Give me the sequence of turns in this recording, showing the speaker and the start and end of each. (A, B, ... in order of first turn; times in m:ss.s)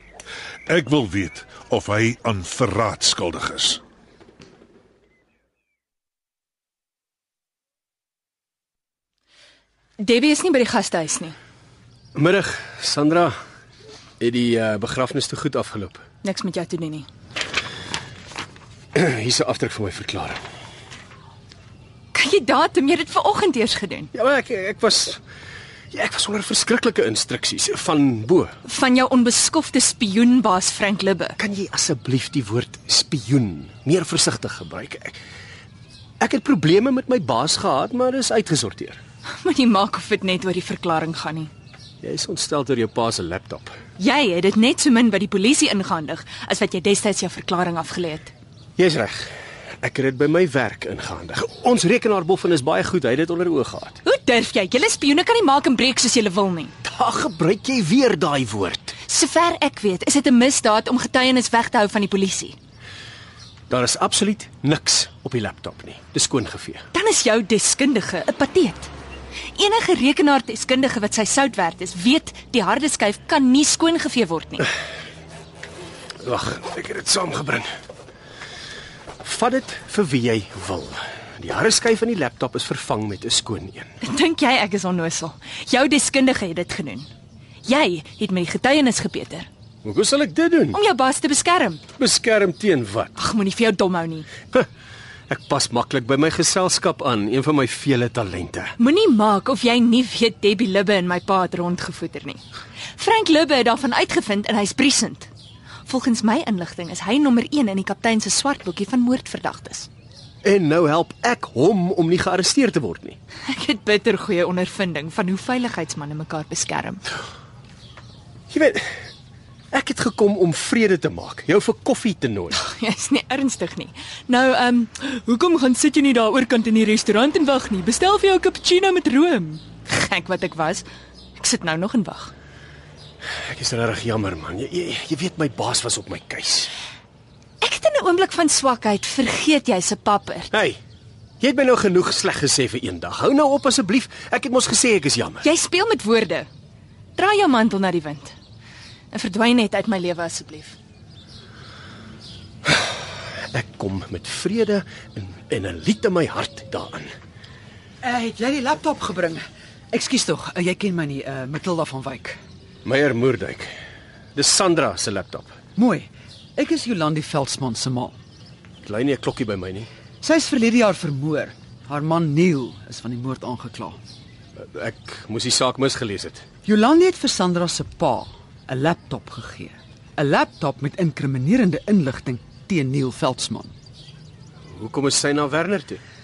0:00.7-0:03.8 A
0:10.0-0:11.4 B
0:12.1-0:13.3 C
0:14.2-0:16.0 C
0:16.2-0:17.1 B
0:18.9-0:20.4 C
0:22.1-0:24.1 B
0:24.1-0:25.2 C
0:25.9-0:28.5 C
0:28.6-0:31.4 B
0:31.4-0:35.2 C
0:36.2-0:39.0 C
0:39.3-0:41.5 B
0:42.0-0:43.8 C
0:44.0-0:48.3 B
0:48.8-0:54.0 C
0:54.0-0:56.7 B
0:56.8-0:58.9 C
0:59.1-1:02.6 B
1:03.7-1:06.8 C
1:06.9-1:08.9 B
1:09.6-1:14.7 B
1:16.2-1:17.7 C
1:19.2-1:23.9 C
1:24.0-1:27.1 B
1:27.6-1:29.5 B
1:29.8-1:30.8 C
1:30.7-1:31.8 B
1:32.0-1:33.1 C
1:33.2-1:34.3 B
1:35.3-1:38.7 C
1:38.8-1:42.4 B
1:43.0-1:45.3 B
1:45.9-1:49.9 B
1:50.4-1:53.2 C
1:53.5-1:57.0 B
1:58.5-1:58.9 C
1:59.7-2:02.6 C
2:02.5-2:12.3 B
2:13.5-2:16.7 C
2:17.6-2:20.5 B
2:20.5-2:20.8 C
2:21.4-2:25.5 C
2:25.4-2:26.5 B
2:27.2-2:28.3 B
2:29.1-2:30.8 B
2:33.5-2:37.1 C
2:38.0-2:42.4 D
2:42.8-2:43.7 C
2:44.3-2:45.5 C
2:45.8-2:48.2 D
2:48.8-2:49.9 C
2:50.2-2:54.0 D
2:54.6-2:56.4 C
2:56.6-3:03.7 D
3:04.7-3:06.0 C